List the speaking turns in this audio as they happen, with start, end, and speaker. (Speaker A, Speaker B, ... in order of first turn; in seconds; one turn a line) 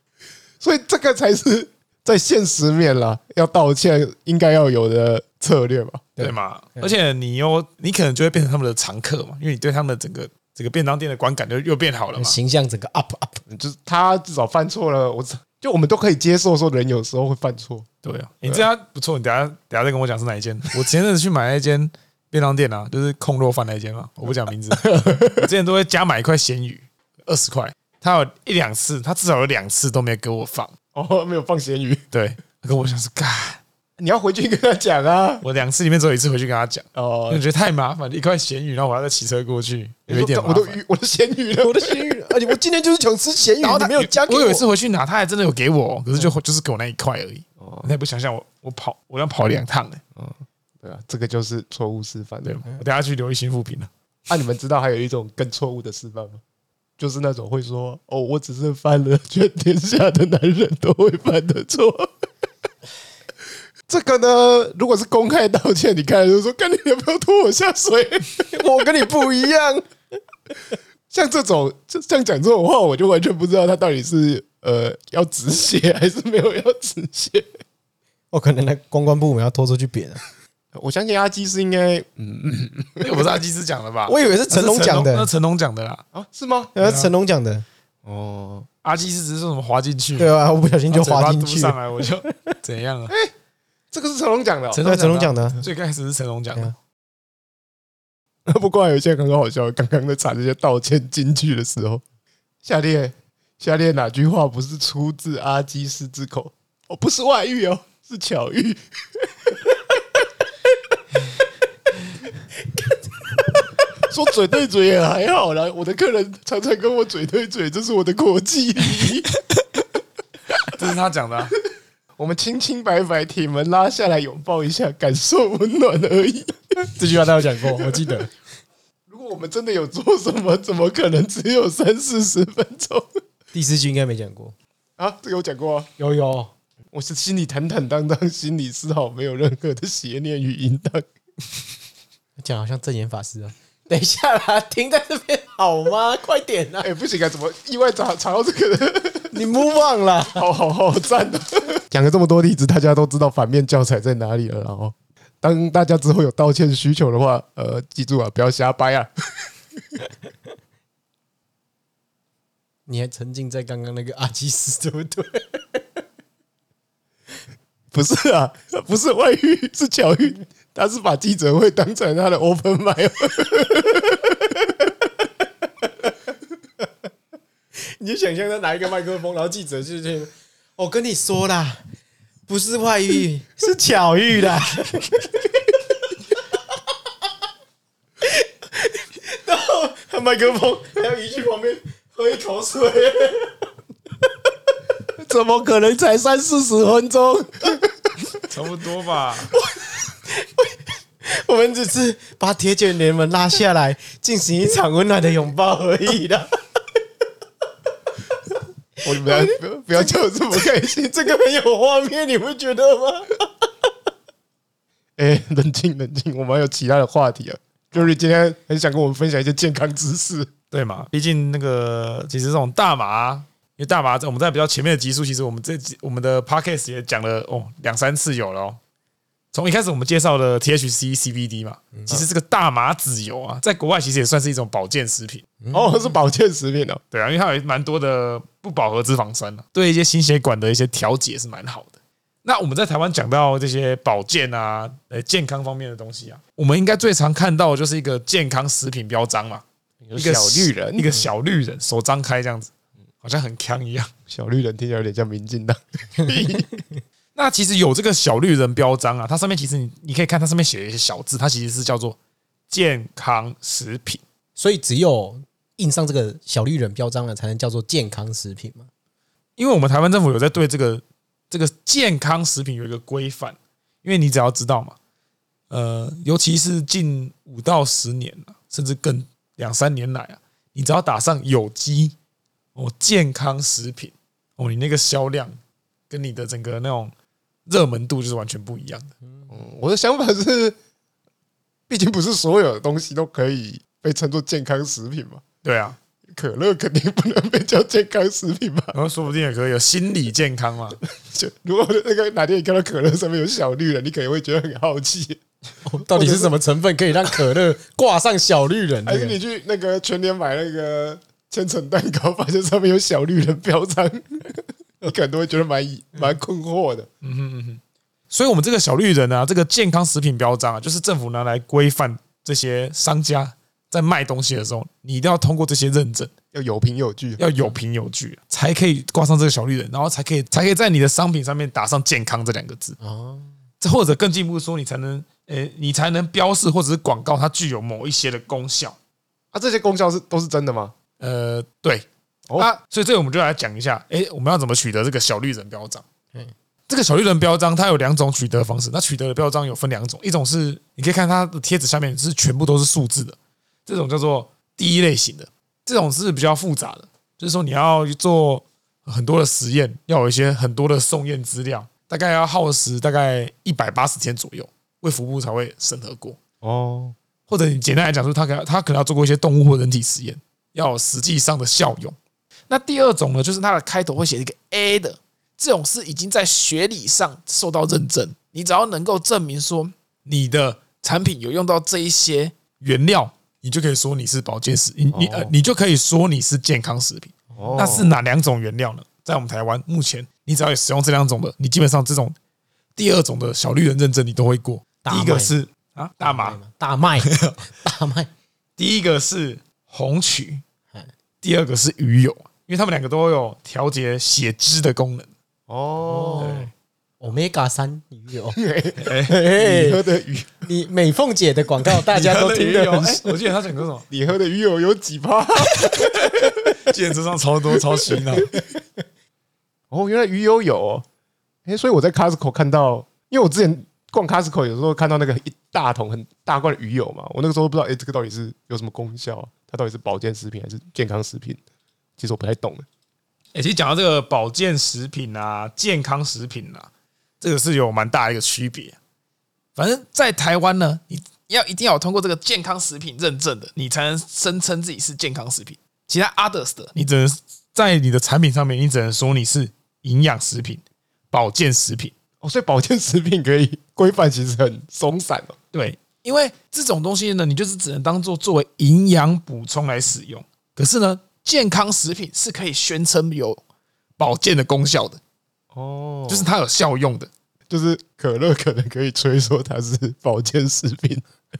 Speaker A: 0.6-6.1
Speaker B: 6.2-6.9
Speaker C: 6.2-12.4
Speaker B: 12.1-13.4
Speaker A: 13.5-17.9
Speaker C: 18.0-30.7
Speaker A: 24.7-25.5
Speaker A: 30.9-32.0
Speaker C: 32.1-33.6
Speaker A: 34.0-35.4
Speaker C: 35.4-40.8
Speaker A: 36.9-37.4
Speaker A: 40.1-42.5
Speaker B: 41.6-44.6
Speaker C: 43.6-50.0
Speaker A: 47.6-47.9
Speaker A: 50.1-52.6
Speaker C: 52.4-53.9
Speaker A: 54.3-56.4
Speaker A: 57.0-62.1
Speaker A: 63.9-68.5
Speaker B: 68.5-69.9
Speaker A: 71.1-77.5
Speaker B: 78.3-80.2
Speaker A: 80.7-83.3
Speaker C: 83.0-86.0
Speaker B: 84.1-85.3
Speaker A: 86.1-86.8
Speaker B: 86.8-87.6
Speaker C: 86.8-87.1
Speaker A: 88.0-88.7
Speaker C: 88.8-90.3
Speaker B: 90.2-92.5
Speaker C: 90.9-93.1
Speaker A: 93.9-94.9
Speaker C: 94.7-96.7
Speaker B: 94.8-95.6
Speaker A: 98.5-102.0
Speaker A: 102.6-110.0
Speaker A: 114.1-119.3
Speaker C: 120.6-121.5
Speaker A: 122.2-126.9
Speaker B: 126.9-128.3
Speaker A: 127.8-128.1
Speaker A: 129.1-133.1
Speaker B: 133.5-134.5
Speaker A: 135.0-135.9
Speaker B: 136.0-136.5
Speaker A: 136.9-141.1
Speaker B: 142.4-146.9
Speaker A: 146.8-149.3
Speaker B: 149.3-150.4
Speaker A: 150.3-159.1
Speaker B: 162.9-165.8
Speaker A: 167.9-174.6
Speaker B: 177.9-181.8
Speaker B: 182.5-185.3
Speaker B: 188.2-193.6
Speaker A: 195.2-198.3
Speaker C: 198.4-199.5
Speaker B: 199.9-200.7
Speaker B: 201.2-206.5
Speaker A: 209.0-211.2
Speaker B: 209.1-210.1
Speaker B: 211.1-213.3
Speaker A: 215.2-220.5
Speaker C: 220.7-228.8
Speaker C: 229.5-235.4
Speaker A: 235.7-237.0
Speaker C: 237.1-249.6
Speaker A: 250.1-251.2
Speaker C: 250.2-252.7
Speaker C: 253.2-254.1
Speaker A: 254.3-256.7
Speaker C: 257.4-262.2
Speaker C: 262.7-264.2
Speaker B: 264.6-268.9
Speaker C: 269.6-274.9
Speaker C: 275.7-282.1
Speaker C: 282.7-285.6
Speaker C: 286.1-287.1
Speaker C: 287.6-289.1
Speaker A: 289.5-290.8
Speaker A: 291.9-295.4
Speaker C: 295.6-296.0
Speaker A: 296.3-298.9
Speaker C: 298.9-301.0
Speaker A: 301.1-305.4
Speaker B: 305.9-309.4
Speaker A: 306.1-306.5
Speaker A: 309.1-317.1
Speaker C: 317.2-317.8
Speaker C: 318.3-326.3
Speaker A: 326.5-327.5
Speaker C: 327.4-333.0
Speaker B: 333.0-333.5
Speaker C: 333.8-338.9
Speaker A: 339.5-340.9
Speaker C: 341.2-342.1
Speaker C: 342.6-346.0
Speaker C: 346.9-366.4
Speaker A: 366.6-367.1
Speaker C: 367.5-372.1
Speaker C: 372.7-392.4
Speaker A: 385.1-385.5
Speaker A: 387.6-388.1
Speaker C: 392.9-396.6
Speaker B: 395.0-395.5
Speaker B: 396.2-398.3
Speaker C: 397.2-397.6
Speaker C: 398.8-400.6
Speaker C: 401.4-405.3
Speaker A: 405.7-406.6
Speaker B: 406.1-408.6
Speaker C: 406.4-406.7
Speaker A: 408.6-410.6
Speaker C: 409.0-409.3
Speaker B: 409.2-410.0
Speaker B: 410.6-413.3
Speaker C: 411.9-414.1
Speaker A: 414.1-416.8
Speaker C: 415.7-418.6
Speaker A: 417.8-418.6
Speaker A: 419.9-421.1
Speaker A: 421.6-431.6
Speaker A: 432.2-432.9
Speaker C: 433.6-436.9
Speaker C: 437.4-439.0
Speaker C: 439.8-452.1
Speaker A: 452.4-455.6
Speaker C: 455.7-463.6
Speaker C: 464.2-465.2
Speaker A: 465.7-466.5
Speaker C: 466.3-467.3
Speaker A: 467.7-471.2